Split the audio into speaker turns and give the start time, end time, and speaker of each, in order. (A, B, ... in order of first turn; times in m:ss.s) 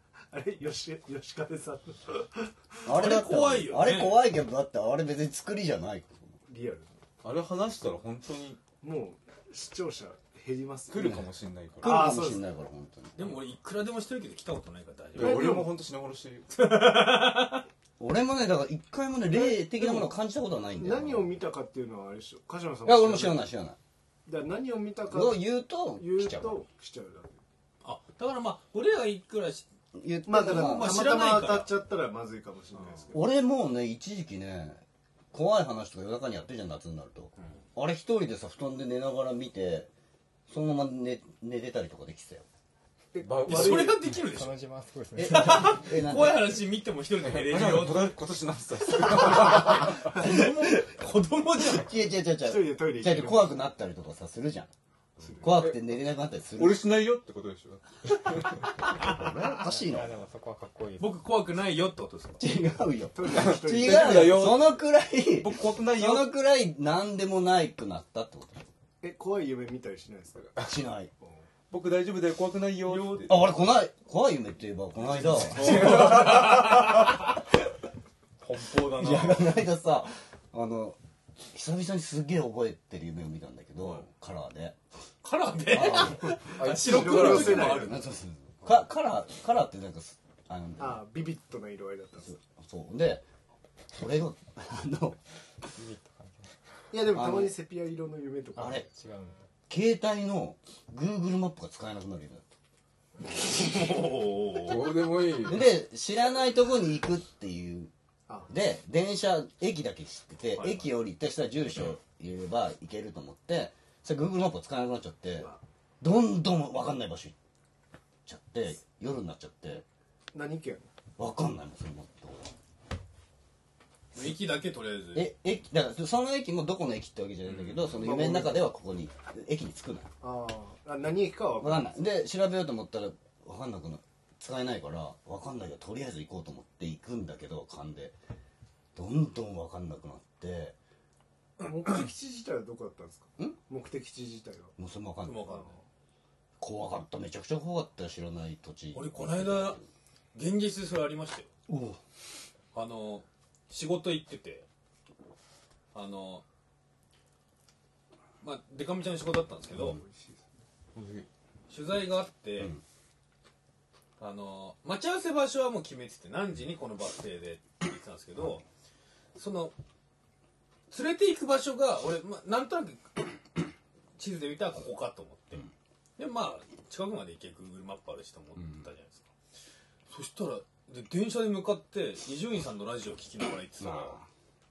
0:00.3-0:03.0 A
0:02.8-0:06.4 B
0:02.9-0:04.2 C
0:06.4-0:06.9 A
0:07.2-0:08.6 D
0:08.8-0:11.2 A
0:10.9-0:12.1 D
0:11.8-0:13.3 B
0:11.8-0:12.5 A
0:13.2-0:15.6 C
0:15.1-0:16.5 D
0:15.2-0:15.7 A
0:16.5-0:17.6 C
0:18.0-0:21.3 B
0:19.3-0:20.1 A
0:20.7-0:23.5 A
0:22.8-0:23.8 B
0:24.2-0:27.4 A
0:25.0-0:26.6 B
0:27.8-0:29.6 C
0:29.9-0:31.2 B
0:30.2-0:33.4 A
0:30.4-0:31.7 C
0:33.1-0:39.9 B
0:40.5-0:42.4 B
0:43.1-0:44.0 A
0:43.2-0:44.1 D
0:43.4-0:44.6 C
0:44.2-0:45.9 E
0:45.2-0:46.6 B
0:45.2-0:48.2 C
0:47.2-0:50.1 D
0:49.2-0:51.9 C
0:49.2-0:50.8 B
0:51.6-0:54.7 B
0:52.4-0:53.6 A
0:55.2-0:55.7 A
0:55.4-0:56.8 B
0:55.4-0:55.8 D
0:56.6-0:58.6 D
0:58.9-1:00.1 B
0:59.6-1:01.2 E
1:01.0-1:02.4 C
1:02.4-1:08.6 B
1:03.1-1:04.6 A
1:03.3-1:04.8 D
1:05.3-1:06.3 D
1:09.0-1:10.6 A
1:10.6-1:11.1 B
1:11.7-1:13.4 D
1:12.8-1:13.4 C
1:13.2-1:16.3 B
1:15.4-1:17.1 C
1:15.5-1:16.8 D
1:18.4-1:19.4 C
1:18.8-1:19.3 D
1:18.9-1:21.0 B
1:21.5-1:24.8 B
1:25.2-1:28.0 C
1:25.7-1:26.4 B
1:26.2-1:27.8 D
1:26.6-1:28.0 A
1:27.1-1:31.0 B
1:30.8-1:32.4 A
1:32.2-1:33.2 B
1:33.9-1:35.2 B
1:35.7-1:36.6 E
1:36.9-1:38.9 A
1:37.1-1:37.5 B
1:38.6-1:38.8 B
1:38.6-1:39.5 E
1:39.7-1:42.5 B
1:43.2-1:45.0 C
1:44.6-1:45.7 D
1:45.4-1:47.9 B
1:48.5-1:57.4 B
1:50.5-1:50.9 C
1:58.2-1:59.8 B
2:00.3-2:00.9 A
2:01.2-2:02.5 B
2:04.1-2:05.3 C
2:05.1-2:10.1 B
2:07.5-2:07.8 C
2:08.0-2:08.7 A
2:10.2-2:12.0 A
2:11.6-2:18.2 B
2:18.9-2:20.8 B
2:21.6-2:24.7 A
2:24.8-2:25.5 B
2:25.2-2:25.7 C
2:25.4-2:25.8 A
2:26.6-2:29.8 B
2:28.9-2:29.8 C
2:30.3-2:31.5 C
2:31.7-2:32.0 B
2:32.7-2:34.7 C
2:35.9-2:36.4 C
2:38.4-2:40.0 C
2:39.8-2:40.5 A
2:40.9-2:41.3 D
2:41.7-2:42.8 C
2:44.2-2:48.6 C
2:49.3-2:49.7 C
2:50.9-2:53.4 C
2:54.2-2:59.3 C
3:00.1-3:04.2 C
3:03.8-3:04.3 B